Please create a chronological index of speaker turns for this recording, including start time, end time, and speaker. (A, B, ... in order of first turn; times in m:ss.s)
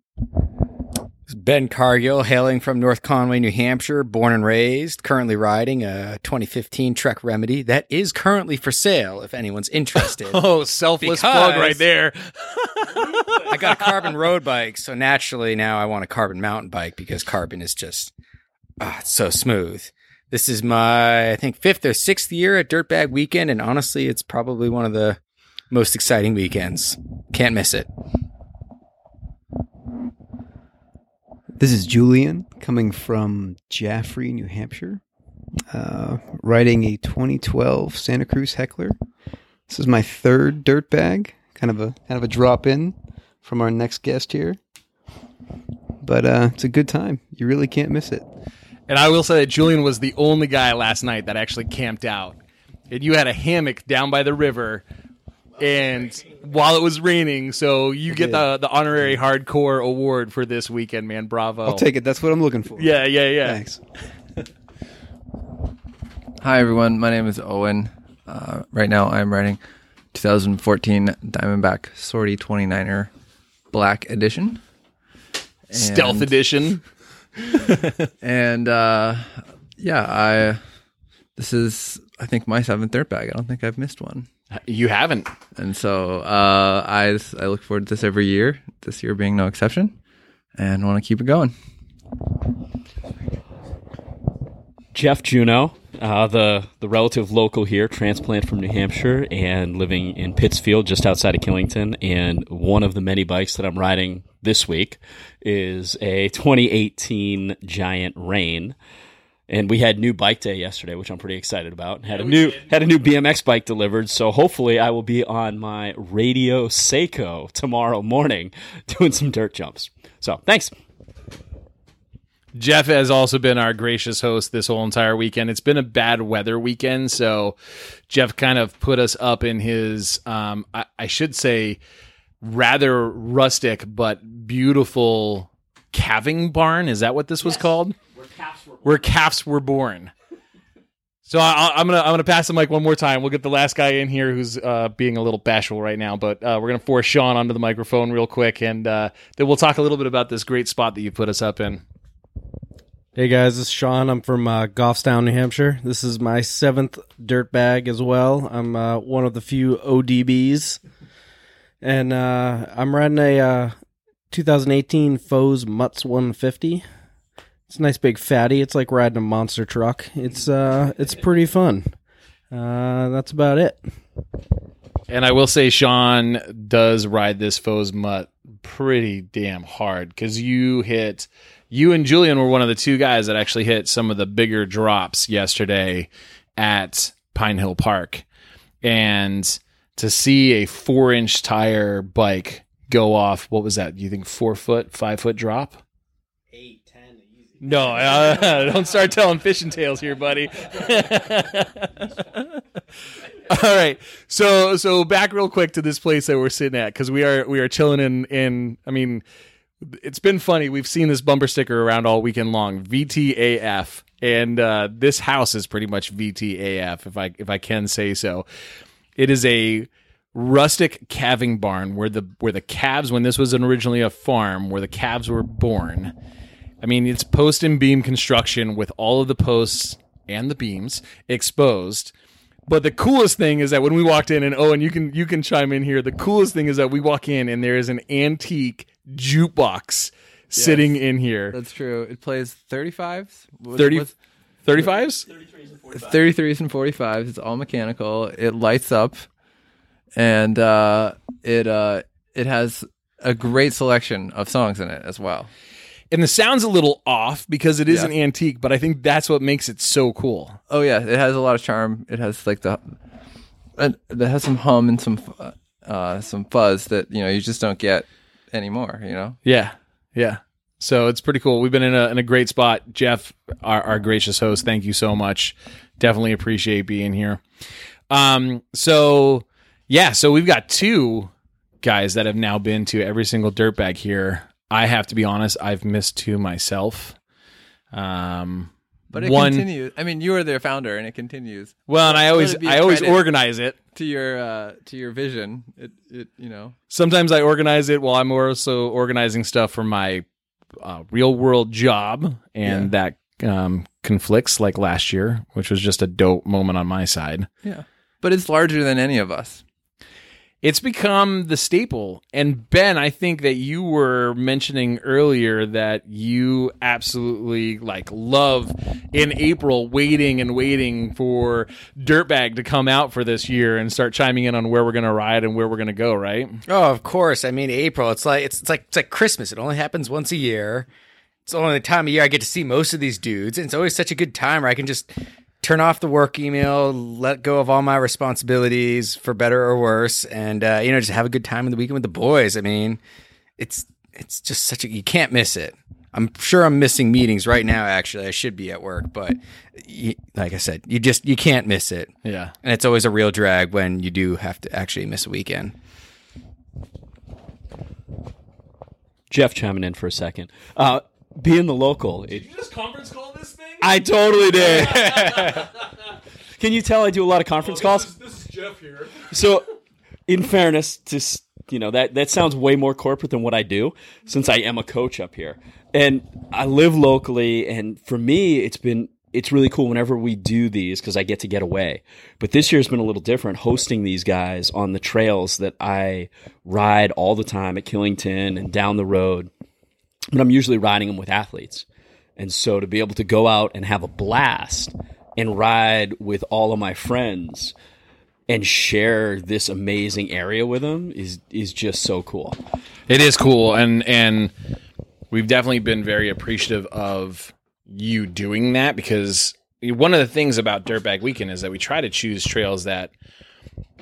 0:01.3-0:10.4 A
0:10.0-0:13.9 B
0:11.0-0:11.8 A
0:13.4-0:18.1 A
0:18.8-0:27.9 A
0:31.6-0:35.0 C
0:35.7-0:39.0 C
0:39.7-0:44.6 C
0:46.0-0:48.3 C
0:48.9-0:52.4 B
0:52.9-0:54.8 B
0:55.6-1:01.9 B
0:58.1-0:58.4 C
1:01.6-1:03.8 C
1:02.8-1:03.6 B
1:06.4-1:09.6 D
1:10.1-1:13.1 D
1:13.7-1:14.6 D
1:15.7-1:16.3 D
1:15.7-1:16.8 B
1:17.5-1:17.9 B
1:18.2-1:20.6 D
1:21.4-1:24.3 D
1:24.7-1:25.3 B
1:25.6-1:30.0 D
1:30.6-1:31.5 D
1:34.9-1:48.8 E
1:49.5-2:00.7 E
2:02.6-2:07.6 B
2:08.1-2:11.8 B
2:12.4-2:18.0 B
2:18.8-2:20.1 B
2:21.3-2:31.8 B
2:33.2-2:40.8 F
2:41.8-2:43.8 F
2:44.3-2:46.8 F
2:47.7-2:51.9 F
2:52.5-2:53.9 F
2:55.1-3:08.2 B
3:08.8-3:15.8 B
3:17.6-3:22.4 B
3:23.5-3:29.2 B
3:29.8-3:38.4 B
3:39.2-3:46.1 B
3:46.8-3:52.1 B
3:52.7-4:01.6 B
4:00.5-4:00.9 D
4:01.5-4:04.1 D
4:03.8-4:04.1 B
4:04.6-4:05.3 B
4:05.9-4:09.3 D
4:10.2-4:15.5 D
4:16.1-4:20.6 B
4:17.9-4:18.1 D
4:20.7-4:22.9 D
4:23.8-4:29.4 D
4:29.4-4:37.4 B
4:38.1-4:41.3 B
4:41.8-4:47.2 B
4:47.9-4:49.7 B
4:49.1-4:53.2 D
4:51.9-4:53.8 B
4:53.9-4:56.8 D
4:56.9-5:00.2 B
5:00.8-5:07.5 B
5:02.6-5:02.9 D
5:07.6-5:09.6 D
5:10.6-5:26.6 B
5:26.7-5:30.9 A
5:31.5-5:43.0 A
5:43.6-5:55.8 A
5:52.2-5:52.5 B
5:59.3-6:02.4 E
6:02.3-6:03.9 B
6:03.8-6:05.8 E
6:04.6-6:05.6 B
6:06.6-6:08.2 E
6:08.0-6:09.1 B
6:09.2-6:09.7 E
6:10.3-6:29.5 E
6:30.3-6:31.9 E
6:32.4-6:37.8 E
6:38.5-6:42.6 E
6:43.1-6:44.5 B
6:45.3-6:53.1 B